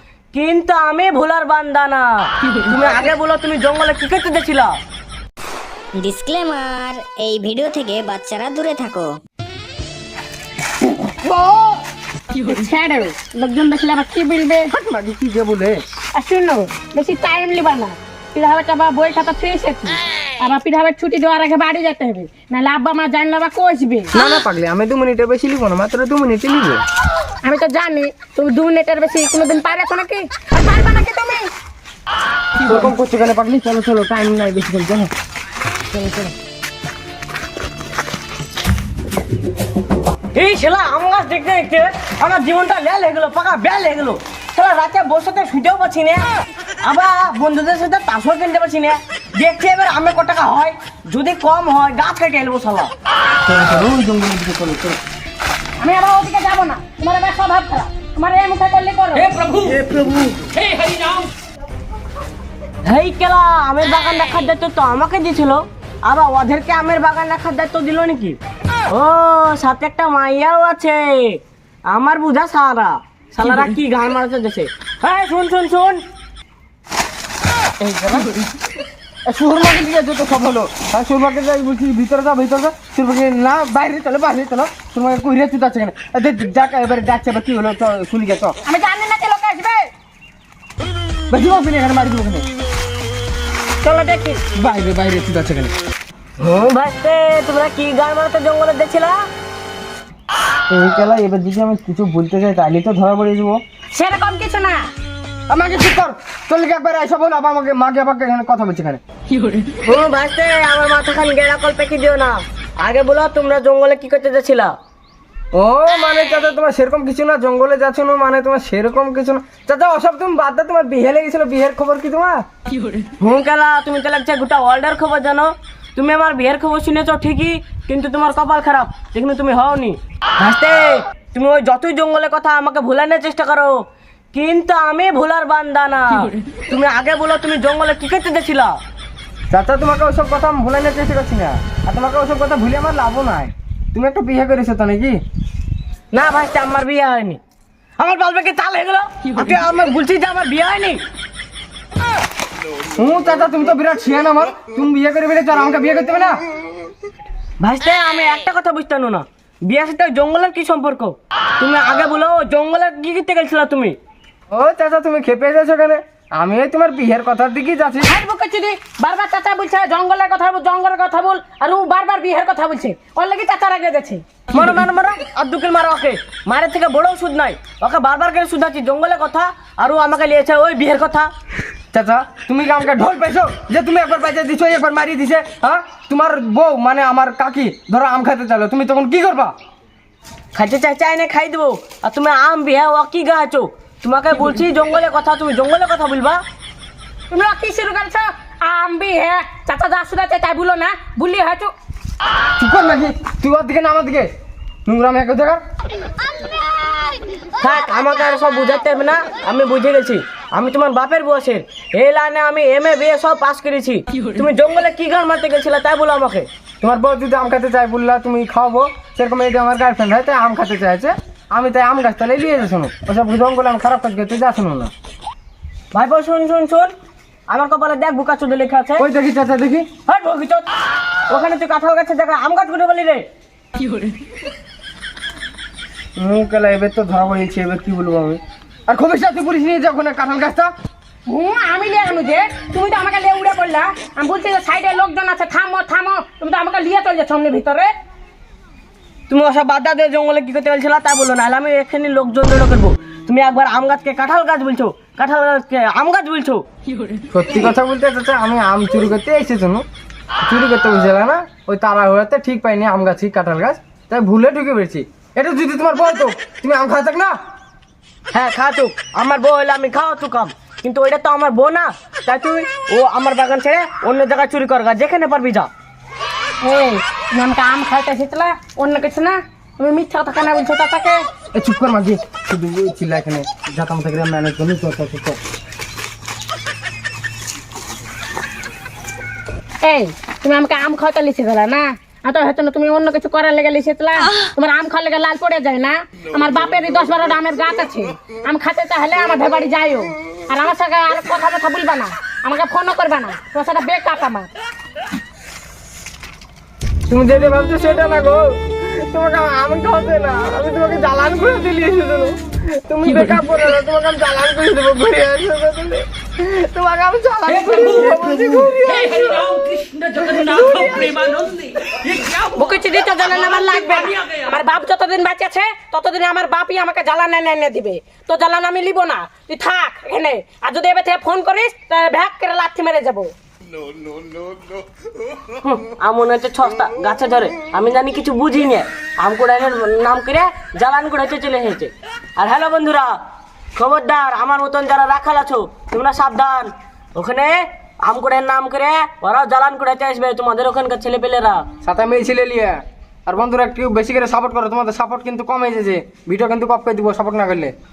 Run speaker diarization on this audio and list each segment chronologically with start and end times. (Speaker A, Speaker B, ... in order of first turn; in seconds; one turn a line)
Speaker A: 0.3-4.8
Speaker B: 6.0-9.2
Speaker C: 12.3-14.7
Speaker D: 14.7-15.8
Speaker C: 16.2-24.1
Speaker D: 24.1-26.8
Speaker C: 27.4-31.5
Speaker D: 32.6-35.1
Speaker D: 36.0-36.3
Speaker A: 40.3-46.2
Speaker A: 46.8-52.9
Speaker D: 53.5-55.0
Speaker C: 55.8-59.3
Speaker A: 59.2-61.3
Speaker D: 59.9-60.1
Speaker A: 62.9-68.4
Speaker A: 68.9-76.0
Speaker D: 77.8-78.3
Speaker D: 79.3-88.6
Speaker C: 88.6-89.9
Speaker D: 91.3-92.5
Speaker C: 93.8-94.4
Speaker D: 94.5-95.7
Speaker A: 96.4-99.3
Speaker D: 100.7-103.6
Speaker C: 103.9-104.8
Speaker D: 105.5-109.0
Speaker A: 109.7-114.7
Speaker D: 115.5-122.4
Speaker A: 123.2-133.8
Speaker A: 134.3-138.8
Speaker D: 139.5-145.2
Speaker A: 146.1-147.4
Speaker A: 148.0-151.0
Speaker D: 152.9-156.4
Speaker A: 157.6-164.0
Speaker D: 164.5-168.1
Speaker C: 168.0-174.2
Speaker A: 174.5-181.3
Speaker D: 181.9-189.6
Speaker A: 190.6-196.4
Speaker C: 197.3-201.7
Speaker D: 202.6-204.3
Speaker D: 204.9-205.6
Speaker A: 207.6-216.5
Speaker D: 216.8-224.9
Speaker A: 225.9-226.9
Speaker A: 227.5-229.1
Speaker D: 229.0-229.9
Speaker A: 230.1-230.7
Speaker A: 231.3-233.3
Speaker D: 236.2-240.7
Speaker C: 241.3-247.9
Speaker A: 249.3-256.6
Speaker D: 257.3-259.9
Speaker D: 260.4-267.4
Speaker A: 268.3-275.7
Speaker C: 276.6-281.2
Speaker D: 281.5-285.4
Speaker C: 289.8-304.5
Speaker D: 307.1-322.2
Speaker C: 322.4-333.3
Speaker A: 335.5-343.2
Speaker A: 343.8-351.6
Speaker D: 351.8-357.7